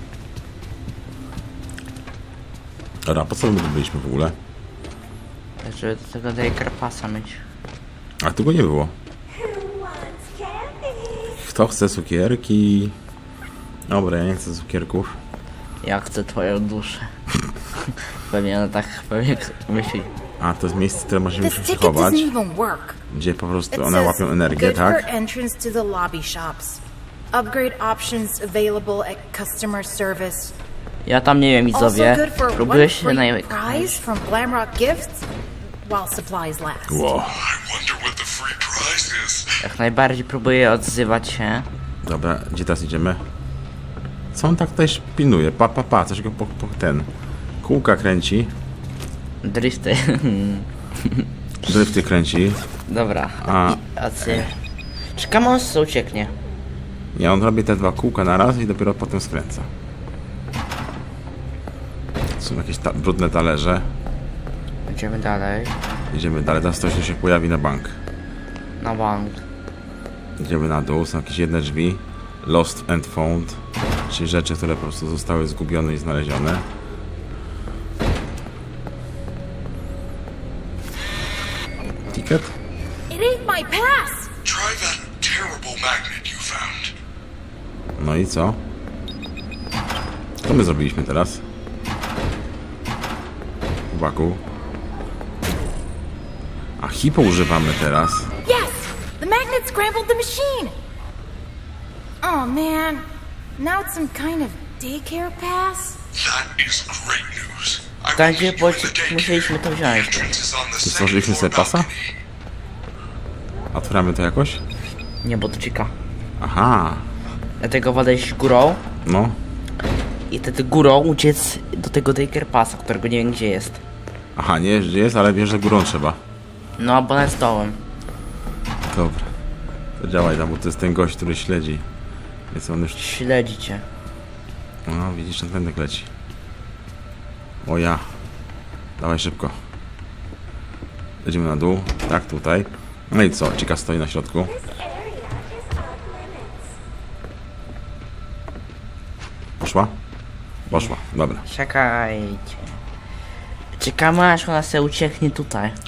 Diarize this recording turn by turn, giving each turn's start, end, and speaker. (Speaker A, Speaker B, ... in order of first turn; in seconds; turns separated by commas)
Speaker A: 3.0-4.3, Speaker B: 5.6-7.4, Speaker A: 8.2-8.9, Speaker A: 11.1-12.9, Speaker A: 13.9-15.2, Speaker B: 15.8-17.1, Speaker B: 17.9-20.1, Speaker A: 20.4-22.3, Speaker C: 21.4-23.0, Speaker A: 23.1-25.1, Speaker C: 23.7-30.5, Speaker B: 31.0-34.0, Speaker C: 31.7-35.2, Speaker C: 35.8-37.0, Speaker A: 36.9-37.4, Speaker D: 37.4-39.6, Speaker B: 39.6-41.7, Speaker A: 42.0-43.2, Speaker A: 44.3-47.1, Speaker A: 47.6-48.5, Speaker B: 49.4-51.3, Speaker A: 51.6-52.6, Speaker B: 52.9-54.5, Speaker A: 53.4-54.5, Speaker B: 55.1-56.3, Speaker A: 57.1-59.7, Speaker A: 62.4-63.9, Speaker B: 64.9-65.8, Speaker A: 66.1-68.0, Speaker B: 68.8-69.4, Speaker A: 70.4-76.6, Speaker A: 82.1-82.5, Speaker C: 83.1-84.3, Speaker D: 84.4-86.9, Speaker A: 88.0-88.6, Speaker A: 90.4-91.4, Speaker A: 93.9-94.4, Speaker A: 96.8-98.3, Speaker C: 98.4-100.8, Speaker C: 102.2-103.0, Speaker C: 103.6-106.0, Speaker D: 106.1-112.1, Speaker B: 108.1-110.3, Speaker A: 110.8-111.9, Speaker A: 113.7-114.6, Speaker B: 115.2-115.9, Speaker A: 116.4-117.1, Speaker B: 117.6-118.8, Speaker A: 119.0-119.4, Speaker B: 120.3-123.8, Speaker A: 124.3-126.2, Speaker B: 126.8-127.8, Speaker A: 128.9-129.3, Speaker A: 130.0-131.8, Speaker A: 132.5-133.0, Speaker B: 133.0-133.8, Speaker A: 134.8-136.1, Speaker A: 137.6-138.1, Speaker A: 139.0-139.6, Speaker A: 141.2-144.6, Speaker A: 149.6-149.9, Speaker A: 150.7-151.4, Speaker B: 151.4-152.7, Speaker B: 153.8-155.8